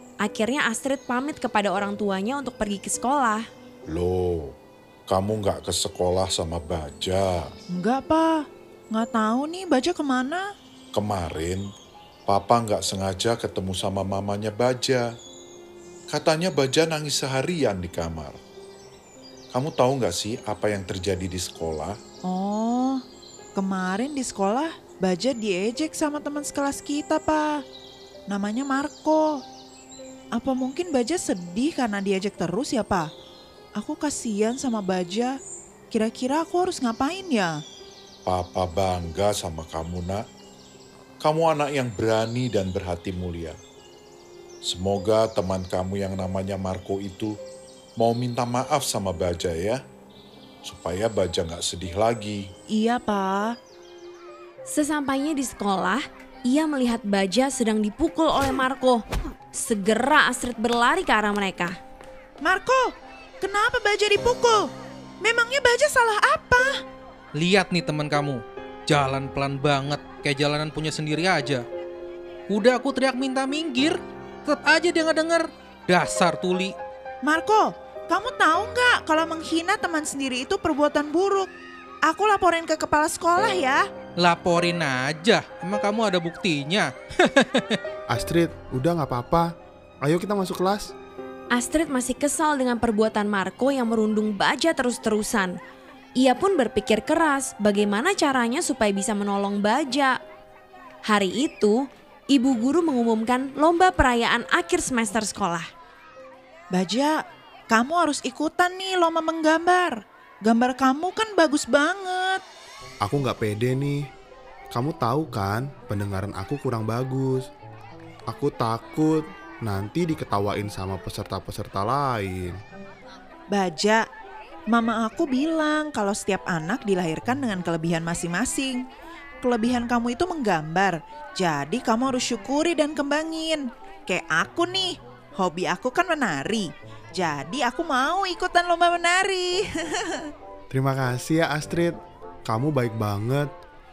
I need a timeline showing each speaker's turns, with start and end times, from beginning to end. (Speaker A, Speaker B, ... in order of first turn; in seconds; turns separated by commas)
Speaker A: 0.2-3.5, Speaker B: 3.9-4.5, Speaker B: 5.1-7.5, Speaker C: 7.7-10.5, Speaker B: 10.9-11.7, Speaker B: 12.3-15.1, Speaker B: 16.1-18.4, Speaker B: 19.5-22.0, Speaker C: 22.2-23.0, Speaker C: 23.5-27.6, Speaker C: 28.3-29.4, Speaker C: 30.3-33.1, Speaker C: 33.8-35.4, Speaker C: 35.9-37.6, Speaker B: 38.2-40.2, Speaker B: 41.2-43.6, Speaker B: 44.6-47.4, Speaker B: 48.0-49.8, Speaker B: 50.6-52.5, Speaker C: 52.7-53.6, Speaker A: 54.7-61.8, Speaker C: 62.4-64.7, Speaker C: 65.2-66.8, Speaker D: 67.3-71.6, Speaker D: 72.5-76.7, Speaker C: 77.2-81.5, Speaker C: 82.0-83.8, Speaker D: 84.2-87.8, Speaker E: 88.1-90.9, Speaker A: 91.5-95.5, Speaker A: 96.2-100.2, Speaker A: 101.0-105.7, Speaker C: 106.7-107.2, Speaker C: 107.7-112.4, Speaker E: 113.0-114.0, Speaker E: 114.7-117.5, Speaker E: 118.3-122.5, Speaker C: 123.5-124.0, Speaker C: 124.7-128.8, Speaker C: 129.4-140.3, Speaker E: 140.7-143.5